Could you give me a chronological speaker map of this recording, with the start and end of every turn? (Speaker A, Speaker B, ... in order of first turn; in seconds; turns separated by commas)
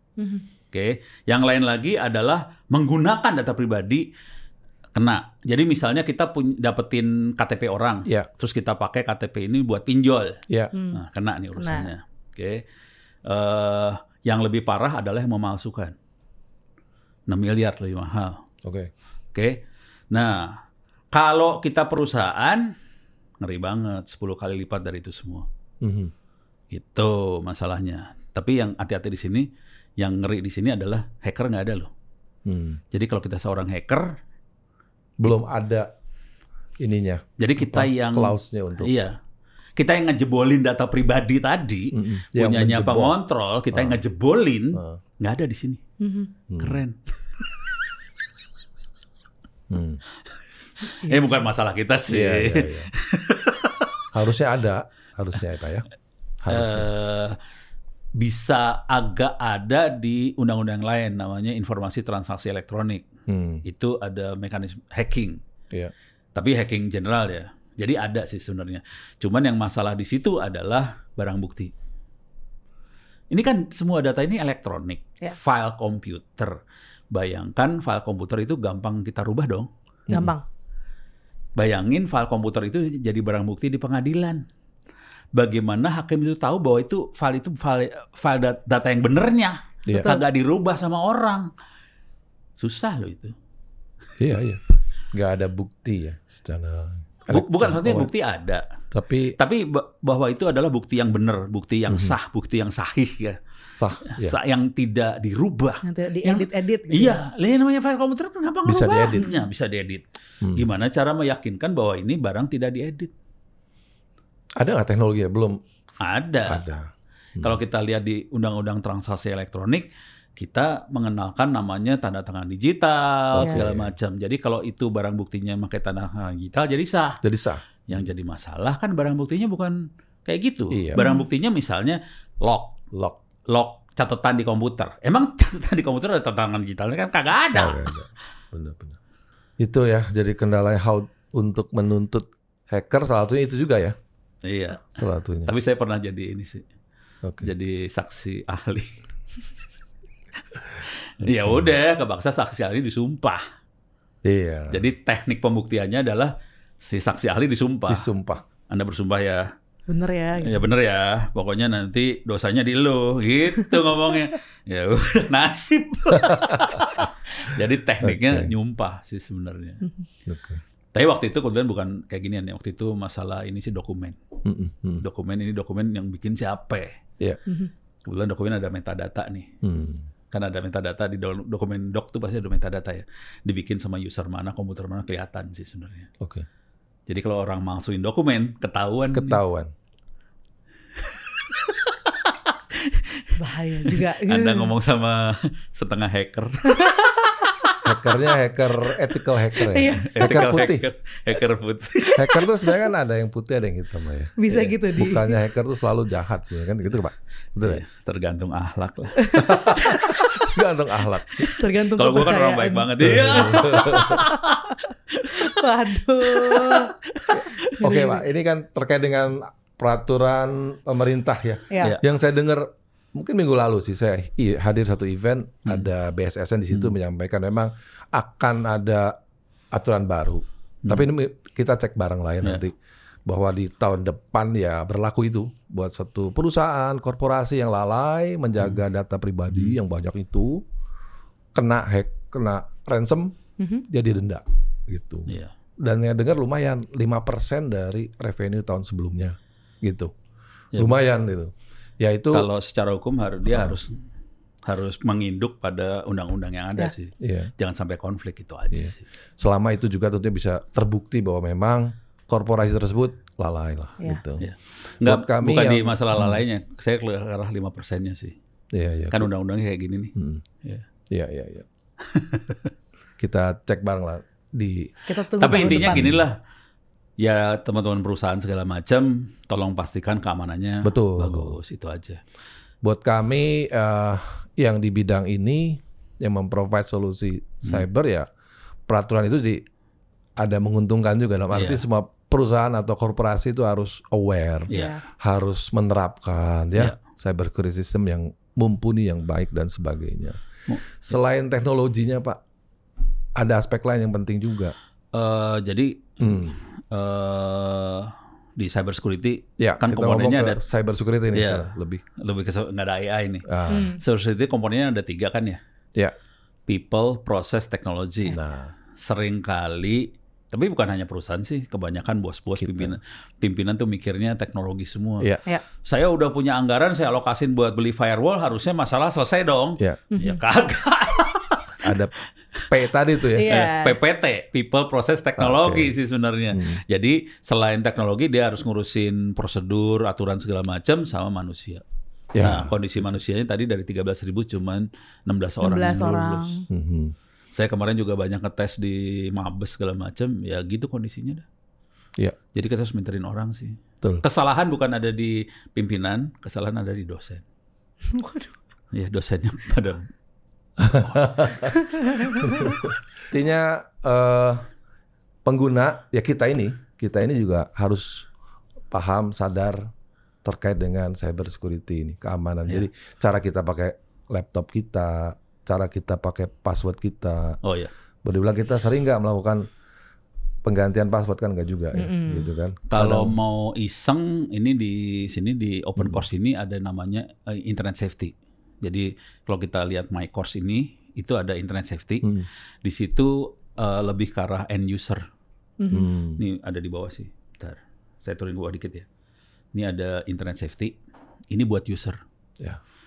Speaker A: 0.2-0.5, Speaker B: 0.7-4.1, Speaker B: 5.0-12.6, Speaker A: 10.7-11.0, Speaker A: 11.6-11.9, Speaker B: 13.3-15.9, Speaker B: 17.3-18.4, Speaker C: 18.6-18.9, Speaker B: 19.3-20.6, Speaker B: 21.1-22.7, Speaker B: 23.4-25.5, Speaker C: 25.8-26.1, Speaker B: 26.7-29.5, Speaker B: 30.0-31.9, Speaker C: 32.5-32.8, Speaker B: 32.9-34.1, Speaker C: 35.2-35.9, Speaker C: 36.8-38.9, Speaker B: 37.4-39.1, Speaker B: 39.8-45.8, Speaker C: 41.9-43.2, Speaker C: 43.7-44.0, Speaker C: 44.8-45.0, Speaker A: 46.0-46.3, Speaker C: 46.5-46.8, Speaker B: 46.6-47.8, Speaker C: 49.7-50.0, Speaker B: 51.0-53.9, Speaker A: 51.0-51.5, Speaker C: 52.1-52.9, Speaker C: 54.1-55.9, Speaker C: 56.4-56.9, Speaker B: 56.5-57.4, Speaker B: 58.2-63.1, Speaker C: 63.3-63.6, Speaker B: 63.6-65.4, Speaker B: 66.3-71.7, Speaker B: 73.3-76.6, Speaker B: 77.1-79.7, Speaker C: 80.1-80.3, Speaker A: 80.1-80.4, Speaker B: 81.6-84.5, Speaker B: 85.3-91.5, Speaker A: 89.9-90.2, Speaker B: 92.6-93.3, Speaker C: 94.2-98.1, Speaker B: 97.3-98.6, Speaker C: 98.9-99.3, Speaker B: 99.4-103.4, Speaker C: 101.9-102.2, Speaker C: 103.7-104.4, Speaker B: 104.0-113.1, Speaker A: 105.8-107.2, Speaker C: 108.7-109.3, Speaker C: 114.6-115.6, Speaker B: 116.0-116.6, Speaker C: 116.5-117.6, Speaker B: 117.4-127.2, Speaker C: 123.3-123.9, Speaker C: 127.2-127.6, Speaker B: 127.9-132.8, Speaker C: 130.7-131.0, Speaker A: 130.9-131.3, Speaker C: 132.9-133.2, Speaker B: 133.5-137.9, Speaker C: 137.6-139.0, Speaker C: 139.6-144.0, Speaker B: 144.4-146.7, Speaker C: 144.9-145.5, Speaker C: 147.2-147.5, Speaker B: 147.4-149.0, Speaker B: 150.6-153.4, Speaker C: 151.2-151.7, Speaker C: 154.2-154.8, Speaker B: 154.7-156.3, Speaker B: 156.8-158.1, Speaker C: 157.9-158.4, Speaker B: 158.7-159.5, Speaker A: 159.9-160.7, Speaker B: 160.4-169.8, Speaker C: 166.3-166.8, Speaker C: 168.0-168.5, Speaker C: 170.3-170.6, Speaker B: 170.9-174.2, Speaker C: 174.4-175.0, Speaker B: 175.0-177.0, Speaker B: 178.1-179.5, Speaker C: 179.6-180.1, Speaker B: 180.3-186.1, Speaker C: 186.2-186.5, Speaker B: 187.1-189.4, Speaker C: 189.1-189.7, Speaker B: 191.0-197.8, Speaker A: 193.4-194.7, Speaker A: 196.7-197.4, Speaker C: 197.8-200.8, Speaker A: 199.6-200.7, Speaker B: 200.0-202.3, Speaker C: 202.2-207.8, Speaker A: 204.4-205.4, Speaker B: 207.6-210.6, Speaker A: 209.2-210.2, Speaker C: 209.4-211.5, Speaker B: 211.4-215.6, Speaker A: 211.4-214.5, Speaker C: 213.0-214.2, Speaker A: 215.4-216.9, Speaker B: 216.3-217.8, Speaker A: 217.7-218.2, Speaker C: 217.8-229.2, Speaker A: 221.7-221.9, Speaker C: 229.7-240.6, Speaker B: 239.5-239.8, Speaker C: 241.5-243.4, Speaker A: 243.6-243.8, Speaker C: 243.9-250.1, Speaker B: 245.3-245.5, Speaker C: 250.8-252.5, Speaker B: 252.3-254.0, Speaker C: 253.5-253.8, Speaker B: 254.7-259.0, Speaker C: 257.2-257.5, Speaker C: 258.7-264.5, Speaker B: 264.4-268.4, Speaker C: 265.0-266.4, Speaker C: 268.7-269.3, Speaker B: 269.1-270.9, Speaker C: 270.2-270.4, Speaker C: 271.1-271.7, Speaker B: 272.1-272.7, Speaker C: 273.2-274.9, Speaker A: 275.1-276.1, Speaker B: 275.4-276.4, Speaker C: 275.5-276.2, Speaker B: 277.2-282.2, Speaker C: 280.8-281.6, Speaker C: 282.8-288.3, Speaker C: 288.9-289.6, Speaker C: 290.4-300.4, Speaker B: 291.5-291.8, Speaker B: 294.7-295.0, Speaker A: 294.7-295.0, Speaker B: 300.7-300.9, Speaker C: 301.0-302.4, Speaker C: 303.4-304.8, Speaker B: 305.1-310.6, Speaker C: 306.2-306.5, Speaker C: 309.6-312.0, Speaker B: 311.3-315.6, Speaker C: 313.5-313.9, Speaker A: 313.7-314.0, Speaker B: 316.7-318.4, Speaker C: 318.3-318.7, Speaker B: 318.9-325.3, Speaker C: 322.6-323.0, Speaker B: 325.8-331.9, Speaker A: 330.1-330.4, Speaker C: 331.8-332.1, Speaker C: 332.7-333.7, Speaker A: 333.3-334.0, Speaker B: 333.4-341.8, Speaker C: 335.4-336.0, Speaker C: 336.5-336.8, Speaker C: 342.3-343.2, Speaker B: 342.4-346.6, Speaker A: 345.6-346.7, Speaker C: 346.7-347.1, Speaker B: 347.5-351.5, Speaker B: 352.5-357.4, Speaker A: 358.1-358.6, Speaker B: 358.9-360.1, Speaker C: 360.8-361.7, Speaker B: 360.9-361.7, Speaker A: 361.7-362.8, Speaker C: 362.4-364.7, Speaker B: 362.4-362.8, Speaker C: 365.4-368.3, Speaker C: 368.9-369.9, Speaker C: 370.4-377.6, Speaker B: 377.6-377.9, Speaker C: 378.2-379.7, Speaker C: 380.6-383.4, Speaker A: 381.9-382.5, Speaker B: 382.9-395.3, Speaker C: 386.0-386.2, Speaker A: 395.8-396.1, Speaker C: 395.9-396.4, Speaker B: 396.4-399.1, Speaker B: 399.7-401.0, Speaker B: 401.5-402.2